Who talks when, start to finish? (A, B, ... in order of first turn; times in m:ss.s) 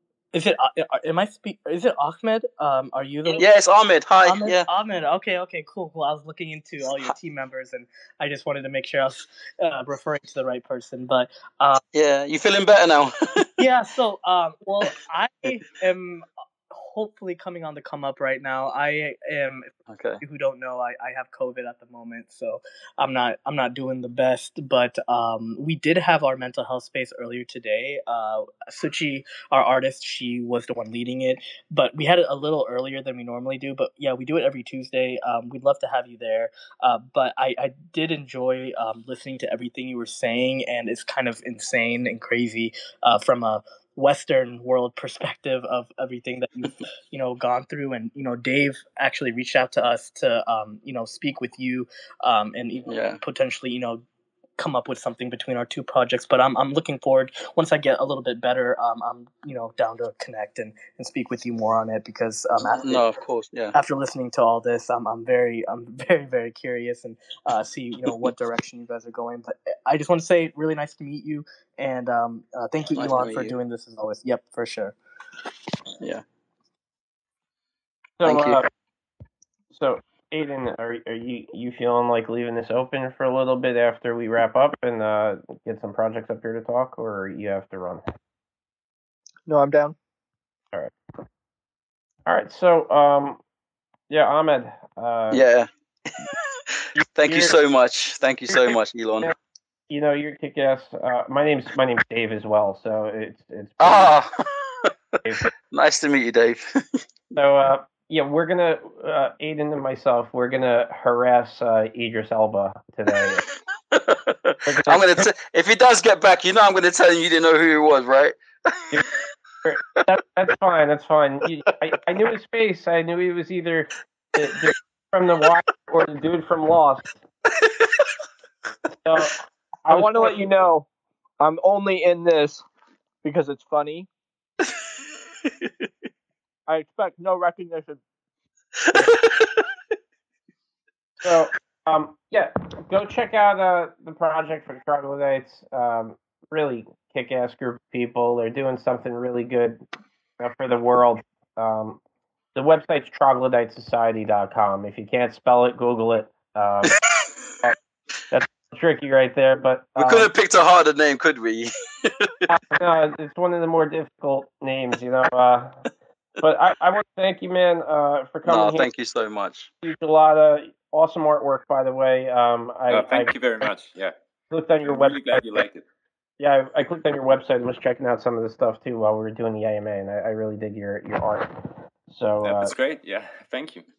0:00.3-0:03.5 A
0:03.2-0:04.7 B
0:04.2-0:11.8 A
0:11.9-0:13.5 B
0:13.6-0:54.0 A
0:19.9-0:20.2 B
0:52.9-0:53.2 B
0:54.6-1:03.0 A
1:02.6-1:03.8 B
1:03.7-1:15.0 A
1:12.9-1:13.6 B
1:18.2-1:18.7 C
1:18.2-1:18.6 B
1:19.7-1:28.0 C
1:29.5-1:30.0 D
1:32.2-1:33.4 C
1:34.1-1:35.4 C
1:35.3-1:39.3 B
1:37.0-1:37.5 C
1:38.5-1:39.3 C
1:39.9-1:44.1 C
1:43.8-1:44.9 B
1:45.2-1:45.5 C
1:45.7-1:46.8 B
1:47.3-1:53.4 C
1:53.9-1:59.0 B
1:54.7-1:55.3 C
1:59.6-2:07.1 C
2:07.6-2:08.1 B
2:08.9-2:10.5 C
2:09.8-2:10.9 D
2:11.4-2:12.6 D
2:13.2-2:14.1 D
2:16.7-2:18.0 D
2:18.9-2:19.6 B
2:21.2-2:29.8 C
2:30.4-2:32.0 C
2:32.5-2:37.0 C
2:36.9-2:37.3 B
2:38.3-2:40.3 C
2:40.0-2:42.5 B
2:42.5-2:45.8 C
2:46.4-2:48.9 C
2:48.5-2:49.7 B
2:49.8-2:53.3 C
2:52.9-2:54.1 E
2:54.5-2:55.6 C
2:54.8-2:55.8 E
2:56.4-3:01.5 C
3:02.1-3:02.7 C
3:02.4-3:03.8 E